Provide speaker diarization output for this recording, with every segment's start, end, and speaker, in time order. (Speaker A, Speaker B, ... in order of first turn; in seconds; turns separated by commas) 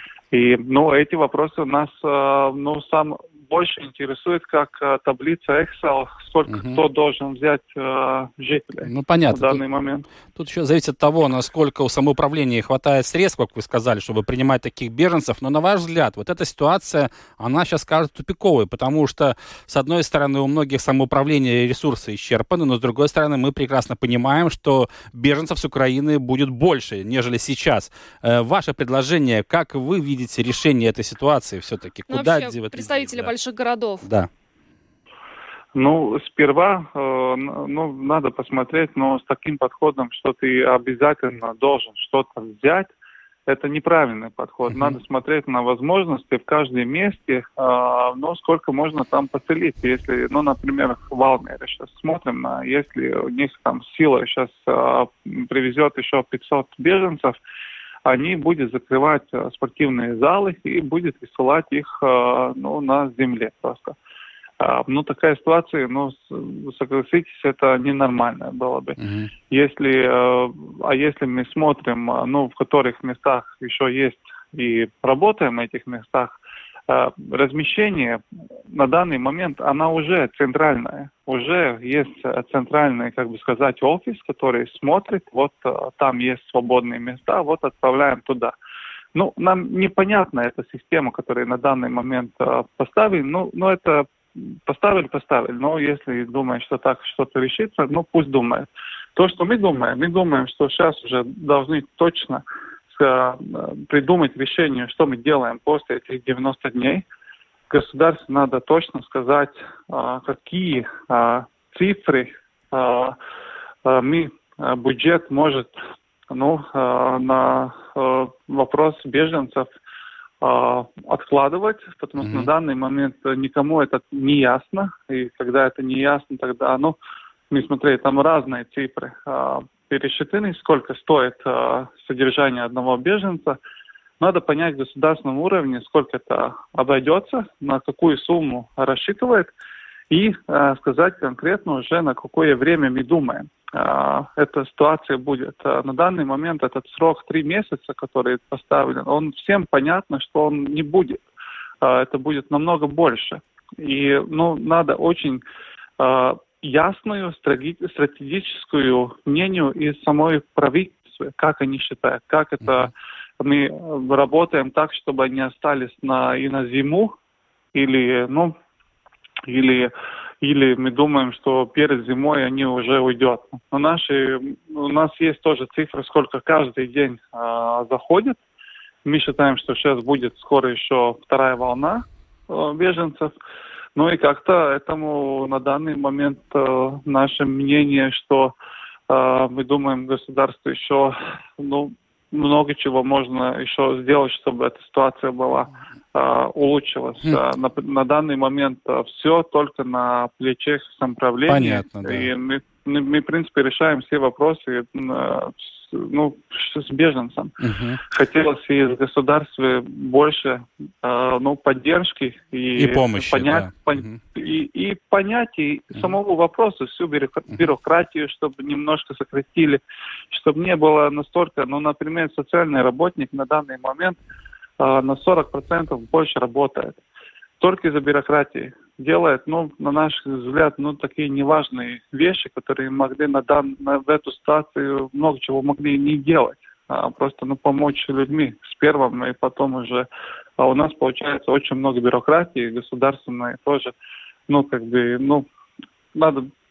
Speaker A: 0.3-10.1, Speaker B: 6.5-6.8, Speaker B: 8.9-9.6, Speaker B: 10.3-33.3, Speaker C: 32.1-34.0, Speaker B: 34.0-34.3, Speaker A: 35.7-42.9, Speaker A: 43.5-57.4, Speaker B: 44.7-45.0, Speaker A: 58.0-64.0, Speaker A: 64.6-69.0, Speaker B: 69.0-69.3, Speaker A: 69.5-76.4, Speaker A: 76.9-88.5, Speaker A: 89.1-107.0, Speaker A: 107.7-113.2, Speaker A: 113.8-115.7, Speaker A: 116.3-119.7, Speaker A: 120.4-127.0, Speaker B: 122.2-122.5, Speaker A: 127.5-133.6, Speaker A: 134.2-139.5, Speaker A: 140.1-151.2, Speaker A: 151.8-155.4, Speaker A: 156.0-167.1, Speaker B: 162.6-162.9, Speaker A: 167.7-168.5, Speaker A: 169.5-178.4, Speaker A: 179.0-183.3, Speaker A: 183.9-188.5, Speaker A: 189.1-207.5, Speaker B: 201.5-202.3, Speaker B: 207.6-208.0, Speaker A: 208.1-224.2, Speaker B: 212.8-214.2, Speaker A: 224.8-227.0, Speaker A: 227.6-240.1, Speaker A: 240.6-243.9, Speaker A: 244.5-245.4, Speaker A: 246.1-246.5